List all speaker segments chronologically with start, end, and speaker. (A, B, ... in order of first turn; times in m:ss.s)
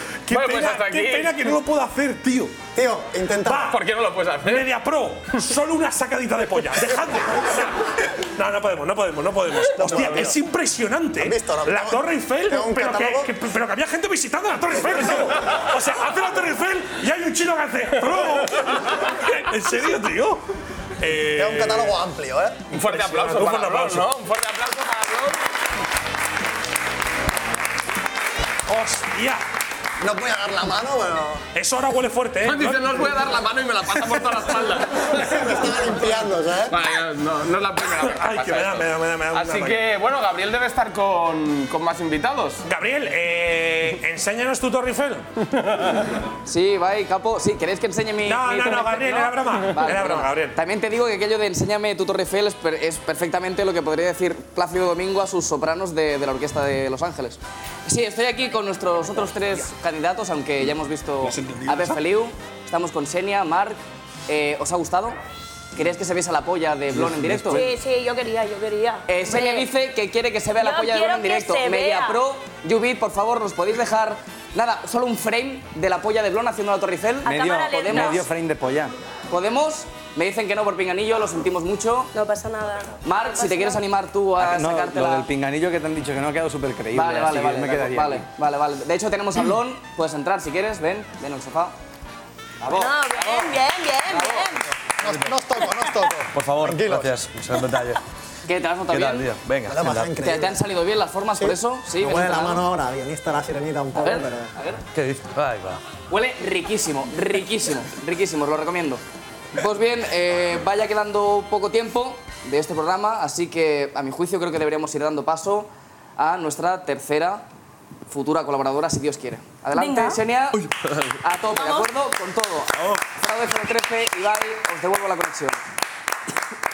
0:00.2-0:02.6 A
0:00.3-0:01.4 B
0:02.7-0:03.7 C
0:03.4-0:03.8 A
0:03.7-0:04.7 B
0:04.4-0:20.4 A
0:09.8-0:10.2 B
0:09.8-0:10.4 C
0:11.2-0:13.3 C
0:18.1-0:18.7 B
0:21.0-0:22.0 A
0:21.4-0:22.6 C
0:22.7-0:25.4 B
0:22.8-0:24.1 A
0:28.7-0:29.4 A
0:30.0-0:31.4 C
0:31.5-0:32.9 A
0:32.4-0:35.6 B
0:35.0-0:36.8 C
0:36.7-0:42.6 B
0:37.8-0:39.8 A
0:42.6-0:45.2 A
0:45.6-0:46.1 B
0:46.4-1:05.2 D
0:48.2-0:50.6 A
1:01.2-1:02.0 A
1:05.7-1:07.7 D
1:07.3-1:07.6 E
1:07.5-1:09.7 F
1:09.1-1:18.2 D
1:10.6-1:12.2 F
1:17.2-1:18.2 F
1:17.2-1:18.9 E
1:19.3-1:22.1 D
1:22.1-1:23.8 F
1:23.0-1:25.3 D
1:24.4-1:28.2 E
1:26.9-1:31.7 D
1:32.6-1:33.5 E
1:32.7-1:34.7 F
1:34.1-1:34.4 D
1:34.2-1:34.5 E
1:35.0-1:37.2 C
1:35.0-1:35.3 G
1:36.3-1:38.0 G
1:38.5-1:39.3 D
1:38.9-1:40.1 G
1:39.6-1:40.6 C
1:40.2-1:42.6 D
1:41.3-1:44.5 C
1:44.0-1:44.8 D
1:44.9-1:45.8 G
1:46.1-1:49.0 D
1:49.5-1:57.4 D
1:58.1-2:00.7 D
1:59.7-2:00.2 F
2:01.2-2:05.6 D
2:01.5-2:01.9 F